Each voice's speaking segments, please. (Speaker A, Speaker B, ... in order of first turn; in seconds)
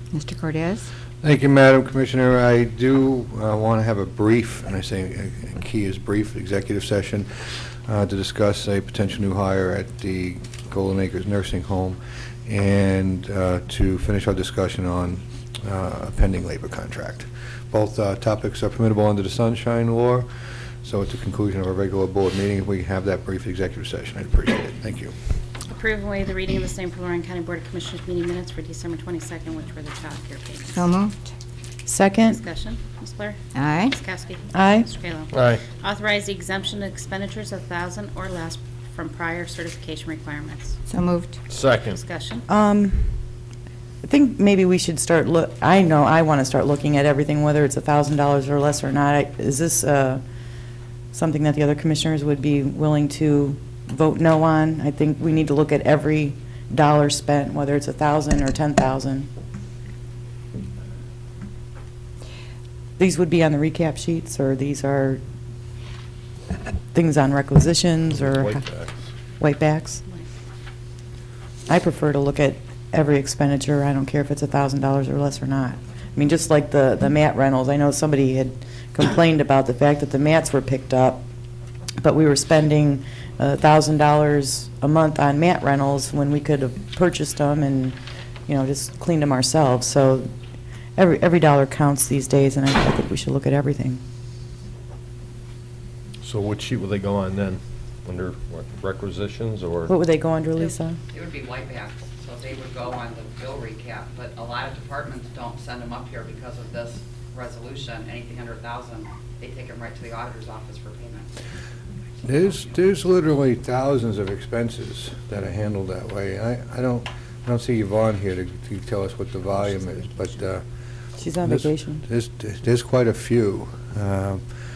Speaker A: 0.1-0.9, 30.7-31.3, 33.5-33.9, 40.9-41.4
Speaker B: 1.2-20.3, 20.8-25.1, 112.2-120.6, 121.4-124.4
Speaker C: 25.7-30.8, 32.3-33.4, 33.9-40.8, 41.8-42.5
Speaker D: 31.9-32.4, 34.5-34.9, 42.5-43.1, 44.0-50.2, 51.1-59.3, 63.0-65.2, 66.9-68.6, 69.4-70.0, 71.7-81.2, 82.0-90.3, 91.0-94.0, 99.9-101.0, 121.2-122.0
Speaker E: 35.3-35.6, 41.5-42.0, 68.2-68.9, 96.2-99.9
Speaker F: 101.1-111.3, 112.2-113.1